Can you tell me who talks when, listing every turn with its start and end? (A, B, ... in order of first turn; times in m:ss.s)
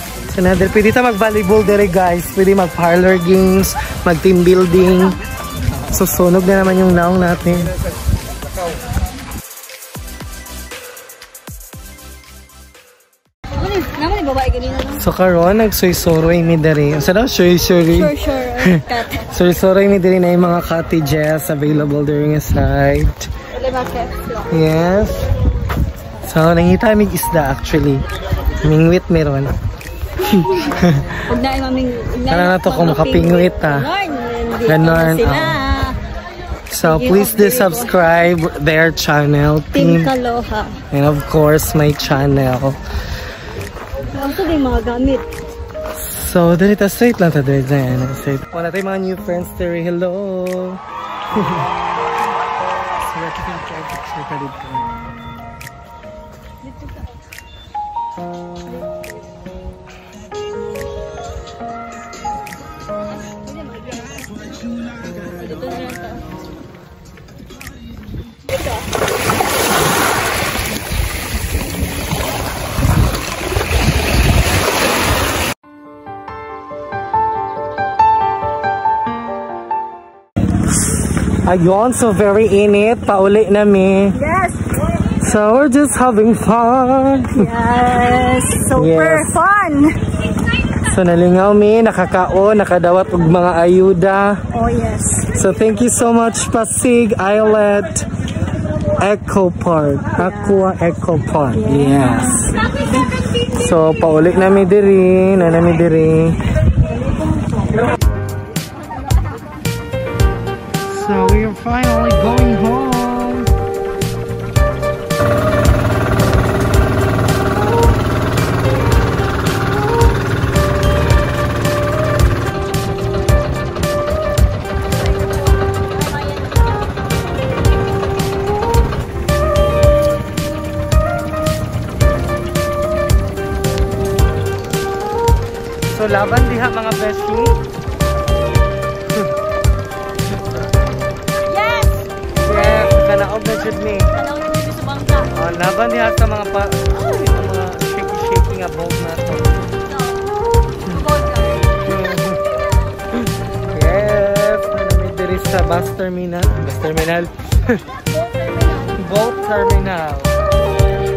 0:00.3-0:05.2 A
0:05.9-0:07.7 A
0:13.6-0:15.0 B
0:14.9-0:23.3 A
0:17.9-0:19.2 B
0:23.6-0:24.5 B
0:24.5-0:25.2 A
0:26.2-0:28.1 A
0:28.6-0:29.5 A
0:30.2-0:31.2 A
0:31.2-0:36.0 B
0:32.3-0:33.9 A
0:34.6-0:35.7 A
0:36.7-0:40.1 A
0:36.8-0:37.9 B
0:39.8-0:40.8 B
0:40.9-0:42.8 A
0:44.1-0:45.3 B
0:46.0-0:50.8 A
0:51.3-0:51.7 A
0:53.0-0:54.9 A
1:03.8-1:04.2 B
1:05.4-1:06.2 B
1:21.3-1:24.2 A
1:24.2-1:25.0 B
1:25.1-1:27.4 A
1:27.3-1:30.0 B
1:28.8-1:29.4 A
1:30.8-1:34.4 A
1:34.5-1:35.3 B
1:35.3-1:38.1 A
1:39.0-1:42.6 A
1:41.7-1:42.6 B
1:43.5-1:46.4 A
1:50.9-1:53.5 A
2:06.2-2:06.5 B
2:15.9-2:17.6 A
2:21.4-2:23.0 B
2:22.4-2:24.1 A
2:24.2-2:25.3 B
2:25.3-2:29.8 A
2:30.0-2:30.3 B
2:30.9-2:31.8 B
2:31.8-2:32.4 A
2:33.1-2:37.8 A
2:38.2-2:39.0 B
2:38.8-2:40.3 A